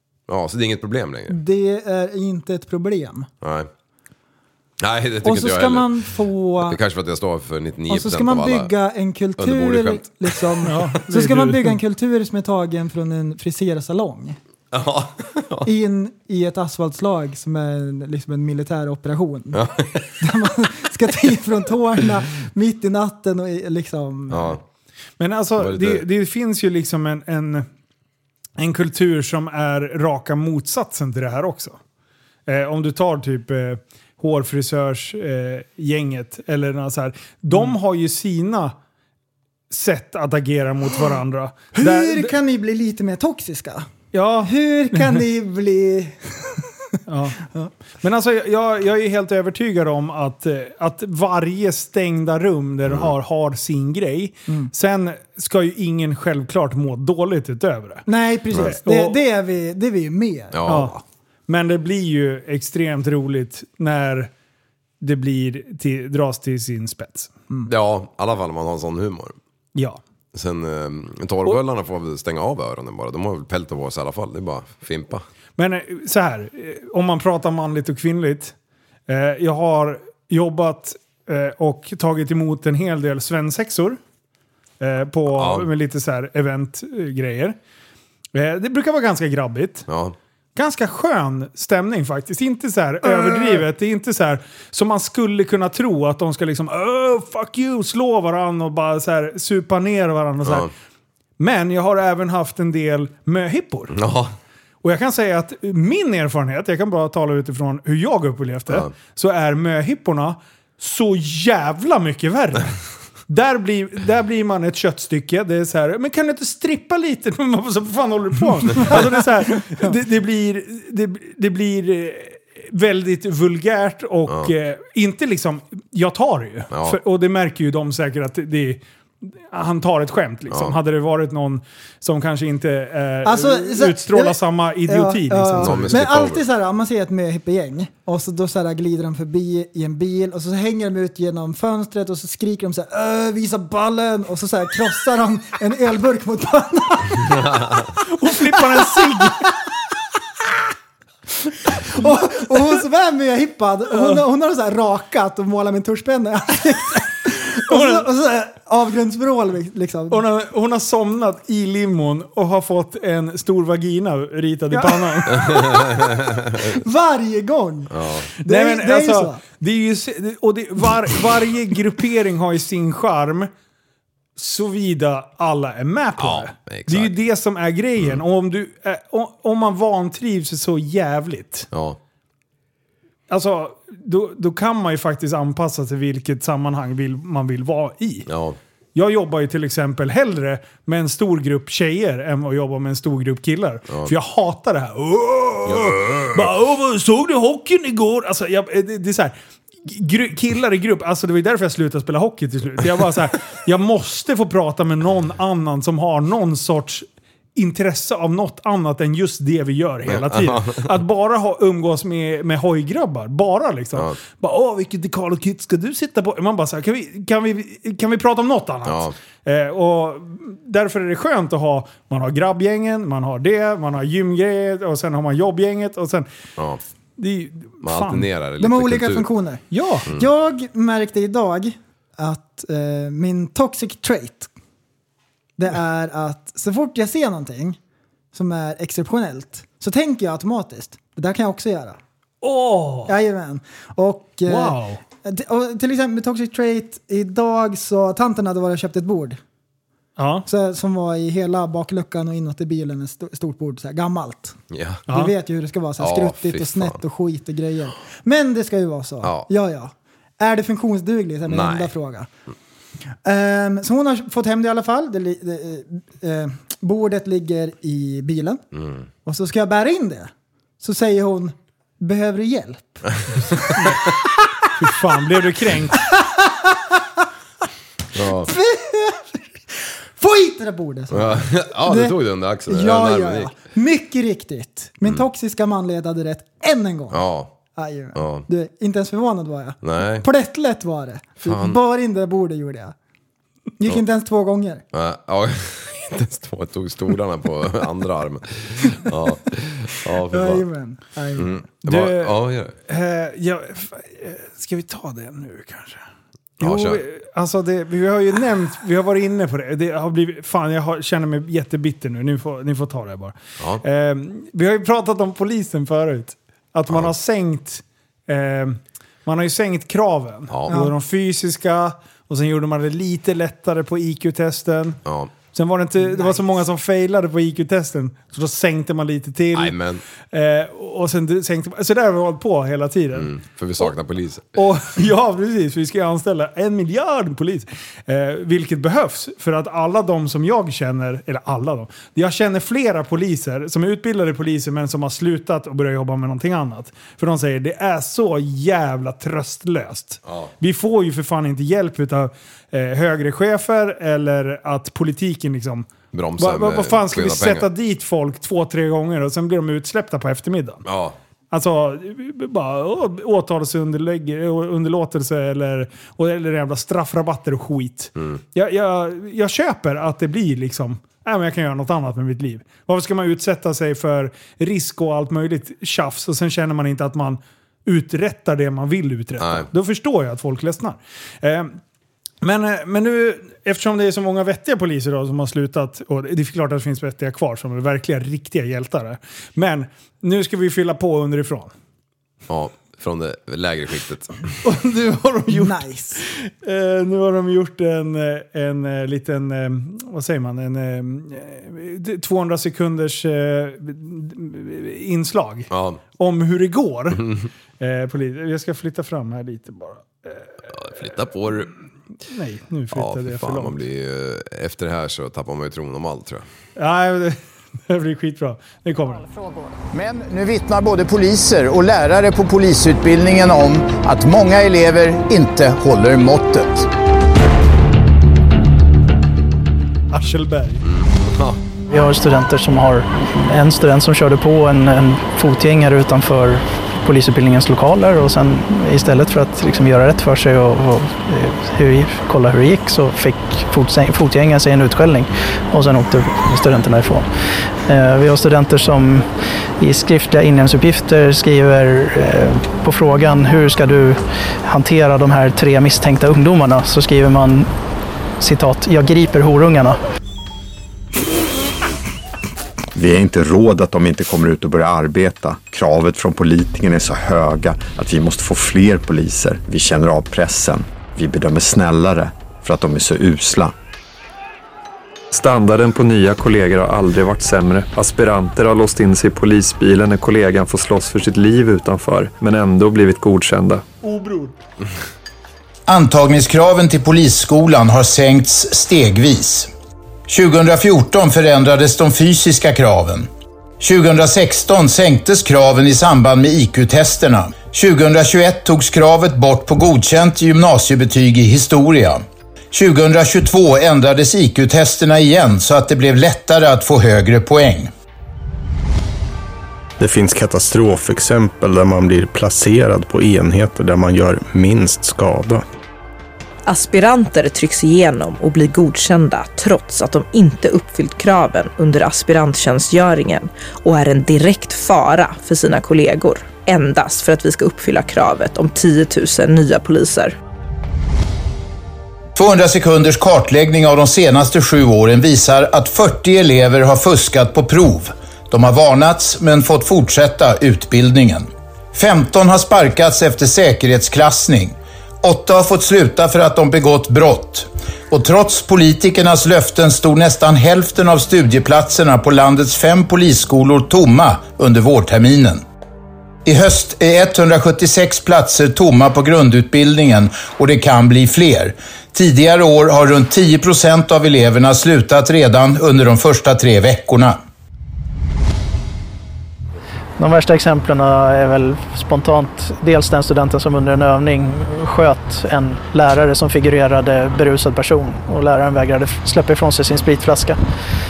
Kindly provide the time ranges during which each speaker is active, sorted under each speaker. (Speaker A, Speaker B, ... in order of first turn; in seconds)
Speaker A: 0.3-1.4, 3.4-3.7, 4.8-6.0, 6.6-8.7, 9.4-10.5, 14.7-15.7, 19.5-20.1, 24.3-24.6, 25.6-26.0, 52.9-53.1, 60.5-60.9, 67.7-69.4, 70.3-75.2, 85.3-85.7, 89.9-90.2, 100.5-100.7, 103.9-104.3, 126.7-127.0, 130.5-130.8, 135.6-136.4, 165.3-166.7, 167.9-168.3, 176.2-177.1, 181.7-182.0, 188.3-188.6, 195.7-196.4, 210.1-210.9, 218.9-219.2, 227.8-229.3, 254.7-255.1, 256.0-257.0, 259.2-259.5, 261.5-261.9, 268.7-269.1, 278.1-278.5, 281.1-283.6, 287.1-287.5, 288.1-288.4, 289.8-290.3, 291.4-291.8, 294.9-300.7, 301.4-302.7, 306.6-307.0, 325.1-325.3, 329.5-330.0, 333.1-334.6, 356.1-357.7, 360.9-361.2, 379.4-379.7, 392.5-394.5, 405.7-406.0, 410.7-411.7, 412.9-416.4, 430.9-431.6
Speaker B: 1.3-3.3, 5.2-6.8, 7.9-14.4, 15.7-19.6, 20.2-24.6, 41.8-43.9, 44.4-46.6, 58.1-61.0, 93.0-93.6, 133.2-147.4, 148.6-149.5, 151.7-160.2, 164.7-166.0, 166.6-167.9, 168.4-169.4, 228.6-234.5, 235.6-237.8, 238.3-242.0, 243.1-249.4, 250.5-254.6, 255.1-262.3, 263.2-268.6, 269.2-273.1, 276.1-277.0, 278.4-279.4, 280.2-287.2, 287.7-292.9, 293.8-294.8, 300.3-301.6, 320.7-320.9, 326.0-326.5, 395.5-396.2
Speaker C: 10.7-11.8, 25.2-27.7, 28.6-31.8, 32.5-38.7, 39.7-42.4, 44.1-45.2, 47.1-47.5, 48.0-58.1, 58.6-59.2, 60.7-60.9, 61.5-64.3, 65.0-67.3, 69.8-70.0, 75.6-78.5, 79.1-84.0, 84.8-87.6, 88.3-89.9, 90.6-100.7, 101.4-104.0, 104.8-112.8, 113.3-128.8, 129.4-136.0, 148.0-149.5, 153.9-154.2, 157.7-158.1, 160.1-165.4, 168.4-173.5, 174.4-181.7, 183.3-188.3, 188.9-207.1, 207.6-226.3, 227.2-228.3, 229.7-230.1, 242.4-243.1, 244.5-245.0, 250.2-250.5, 274.8-276.1, 301.9-306.0, 306.6-325.0, 325.5-329.8, 330.3-333.9, 334.6-360.8, 361.5-381.8, 382.4-391.7, 394.6-407.3, 407.8-410.5, 412.3-413.8, 416.8-417.4, 417.9-419.3, 430.1-430.8, 484.0-484.6
Speaker D: 419.9-426.9, 485.9-489.7, 490.3-493.3, 493.8-507.9, 532.4-555.6, 556.5-567.4
Speaker E: 431.9-447.3, 447.9-449.3, 449.8-457.7, 458.4-460.0, 570.2-580.6
Speaker F: 462.9-473.7
Speaker G: 475.3-483.8
Speaker H: 510.0-515.6
Speaker I: 516.7-530.3